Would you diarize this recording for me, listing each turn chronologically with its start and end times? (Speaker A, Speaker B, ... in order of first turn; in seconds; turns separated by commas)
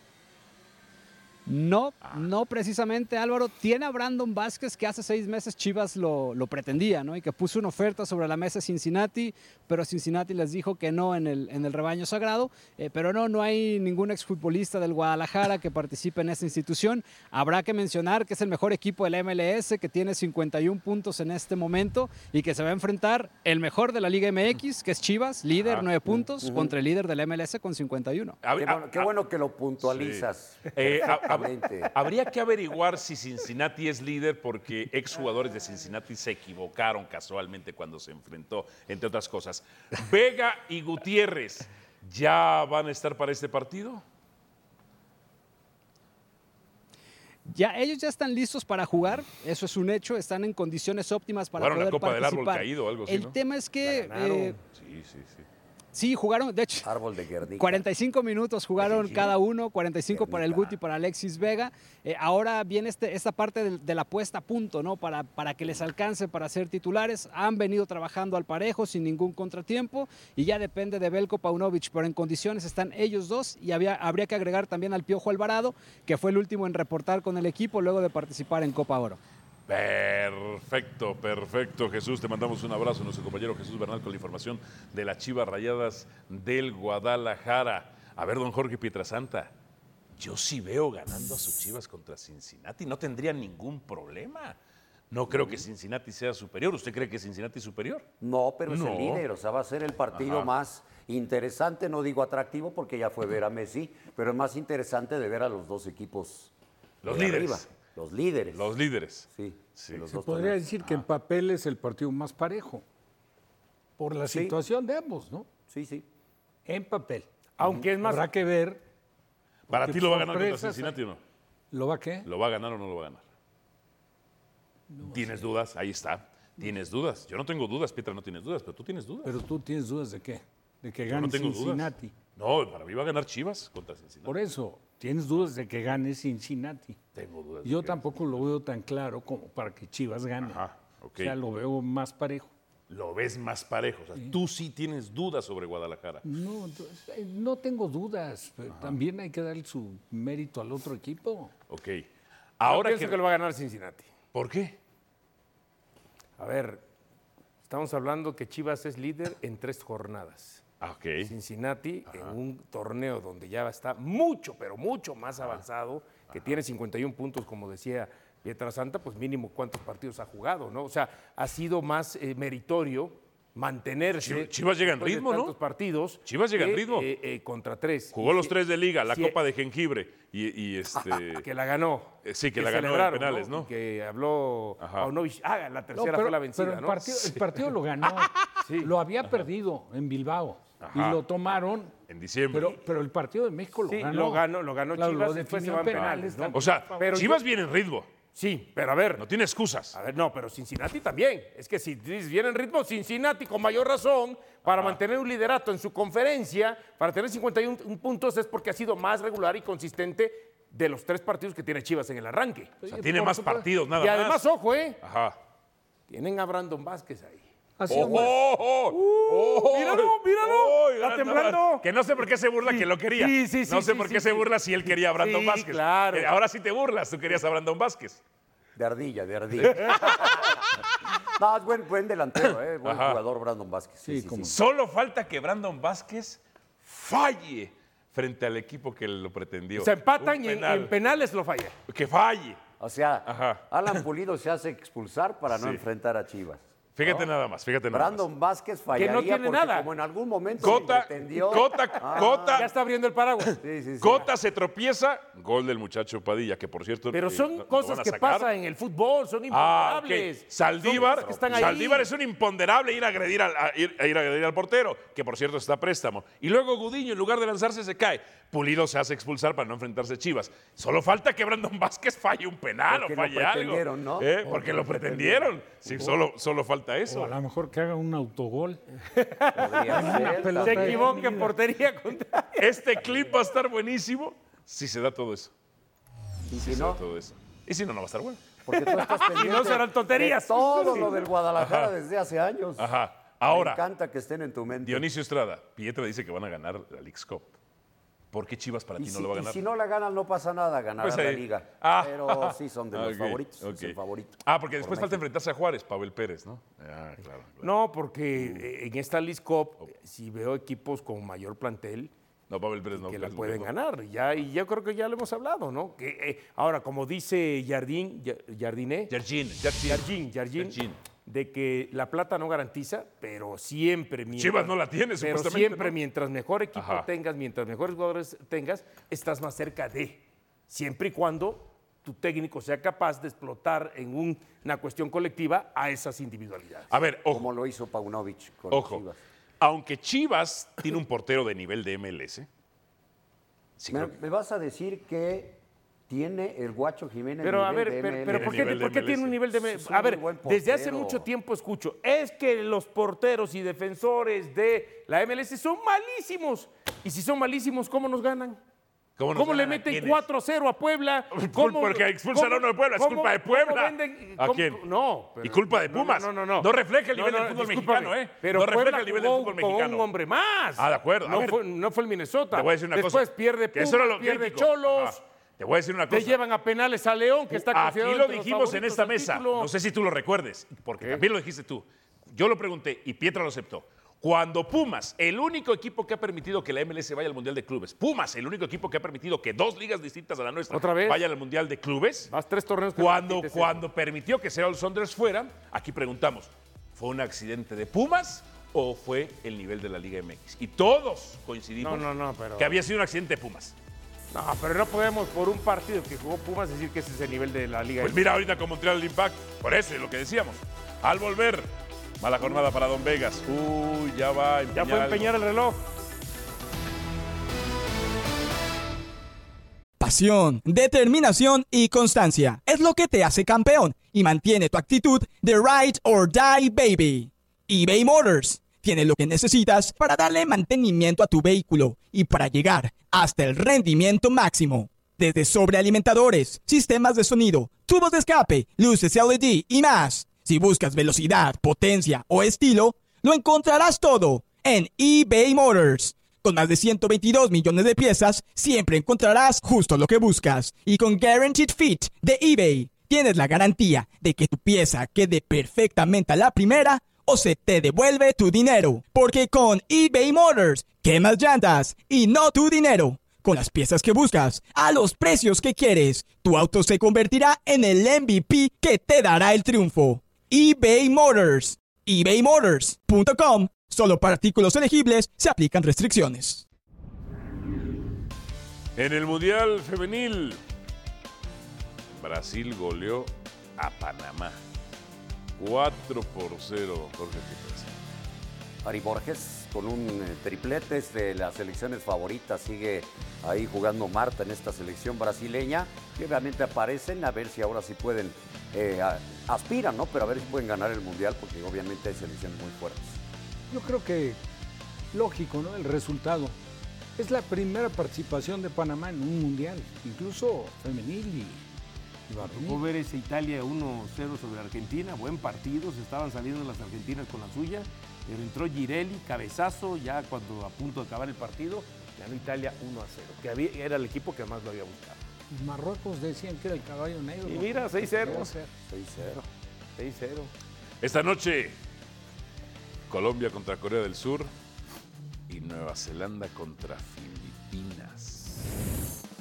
Speaker A: 1.5-28.4, Speaker B: 25.6-25.9, Speaker C: 26.2-26.7, Speaker B: 28.4-29.1, Speaker C: 28.6-31.9, Speaker B: 29.8-44.0, Speaker A: 47.5-54.6, Speaker B: 51.6-53.4, Speaker D: 53.8-54.6, Speaker B: 54.7-55.5, Speaker A: 55.9-56.9, Speaker C: 56.8-57.9, Speaker A: 57.6-79.2, Speaker C: 60.1-60.8, Speaker B: 79.7-89.5, Speaker B: 90.2-94.6, Speaker B: 95.1-98.0, Speaker C: 95.3-95.7, Speaker C: 98.2-106.5, Speaker B: 98.7-99.2, Speaker B: 100.1-100.5, Speaker B: 107.0-107.7, Speaker C: 107.1-108.7, Speaker B: 108.5-110.0, Speaker C: 109.3-110.6, Speaker E: 110.1-112.8, Speaker E: 114.0-115.5, Speaker C: 114.3-114.6, Speaker C: 115.7-116.1, Speaker E: 116.7-117.3, Speaker D: 117.6-118.3, Speaker E: 117.8-118.8, Speaker B: 119.7-121.2, Speaker E: 119.7-121.0, Speaker E: 121.7-122.3, Speaker B: 122.2-123.2, Speaker E: 124.9-125.5, Speaker B: 125.1-129.3, Speaker E: 129.2-132.1, Speaker B: 131.1-134.3, Speaker E: 134.3-137.0, Speaker B: 137.2-138.4, Speaker E: 137.6-140.6, Speaker B: 140.4-141.3, Speaker E: 141.2-142.5, Speaker B: 142.9-146.2, Speaker E: 146.2-151.5, Speaker B: 148.7-149.0, Speaker B: 151.7-152.1, Speaker B: 152.6-153.2, Speaker D: 152.7-154.1, Speaker B: 154.3-154.8, Speaker D: 156.4-156.8, Speaker D: 157.6-160.6, Speaker B: 160.8-161.3, Speaker D: 161.2-178.5, Speaker B: 162.1-162.4, Speaker B: 166.3-166.6, Speaker B: 174.2-175.5, Speaker B: 176.3-177.1, Speaker B: 178.1-181.5, Speaker D: 179.1-179.4, Speaker D: 181.0-187.7, Speaker B: 182.2-183.7, Speaker B: 184.8-185.1, Speaker E: 185.9-191.9, Speaker D: 188.6-188.9, Speaker B: 190.8-191.2, Speaker B: 192.1-192.7, Speaker E: 192.5-197.0, Speaker D: 193.9-197.4, Speaker B: 195.9-198.1, Speaker D: 198.3-199.2, Speaker B: 199.2-200.0, Speaker D: 199.9-213.3, Speaker B: 204.7-205.0, Speaker E: 212.9-213.7, Speaker B: 212.9-214.4, Speaker D: 213.9-215.0, Speaker B: 215.0-215.4, Speaker D: 216.1-218.3, Speaker E: 217.8-218.3, Speaker B: 217.9-228.2, Speaker D: 218.9-221.9, Speaker D: 222.7-226.3, Speaker C: 228.8-230.5, Speaker B: 229.6-230.6, Speaker C: 231.3-234.6, Speaker B: 232.8-233.2, Speaker E: 234.1-234.5, Speaker B: 234.5-240.9, Speaker D: 239.8-241.8, Speaker B: 241.9-242.6, Speaker C: 242.8-247.3, Speaker B: 243.3-244.0, Speaker B: 245.5-245.8, Speaker B: 247.0-248.2, Speaker C: 247.9-252.7, Speaker D: 248.9-249.9, Speaker B: 250.6-252.7, Speaker D: 250.6-250.9, Speaker D: 252.1-253.6, Speaker B: 253.5-258.5, Speaker C: 253.6-254.3, Speaker D: 257.1-262.1, Speaker B: 259.5-277.4, Speaker C: 261.0-262.0, Speaker C: 272.9-276.0, Speaker E: 277.1-278.8, Speaker D: 279.4-282.6, Speaker C: 279.6-281.2, Speaker E: 279.7-281.6, Speaker B: 282.6-285.5, Speaker C: 286.5-287.0, Speaker B: 286.5-288.4, Speaker C: 288.7-292.9, Speaker D: 288.8-291.2, Speaker B: 291.6-291.9, Speaker B: 292.8-293.8, Speaker C: 293.5-295.1, Speaker B: 294.8-297.5, Speaker B: 298.3-299.6, Speaker C: 299.0-305.2, Speaker B: 301.0-307.7, Speaker D: 307.6-312.1, Speaker B: 308.4-308.7, Speaker B: 312.5-313.7, Speaker D: 312.9-319.1, Speaker B: 319.1-321.0, Speaker D: 319.9-336.9, Speaker B: 324.3-326.0, Speaker B: 326.8-327.1, Speaker B: 336.9-337.5, Speaker C: 337.3-339.2, Speaker B: 338.7-339.0, Speaker B: 339.6-342.5, Speaker B: 343.8-344.1, Speaker C: 343.9-348.9, Speaker D: 347.4-358.6, Speaker B: 348.3-349.4, Speaker C: 349.6-351.3, Speaker B: 359.2-360.2, Speaker D: 359.4-375.2, Speaker B: 361.3-364.8, Speaker B: 365.4-370.1, Speaker B: 370.8-371.6, Speaker B: 372.5-376.4, Speaker D: 376.1-379.7, Speaker B: 377.5-392.3, Speaker D: 390.7-391.2, Speaker D: 392.3-393.8, Speaker B: 393.0-403.8, Speaker D: 401.8-402.7, Speaker D: 404.3-408.2, Speaker B: 408.0-415.3, Speaker D: 414.8-415.8, Speaker F: 420.0-476.6, Speaker B: 479.0-480.6, Speaker B: 482.2-484.6, Speaker B: 485.6-487.9, Speaker C: 488.8-503.2, Speaker E: 503.7-504.4, Speaker E: 505.1-506.6, Speaker E: 507.2-511.6, Speaker E: 512.3-512.8, Speaker D: 512.4-525.2, Speaker E: 525.5-528.7, Speaker D: 527.5-528.5, Speaker C: 528.9-529.4, Speaker D: 530.0-530.5, Speaker B: 531.0-531.8, Speaker B: 533.1-534.5, Speaker B: 535.5-538.7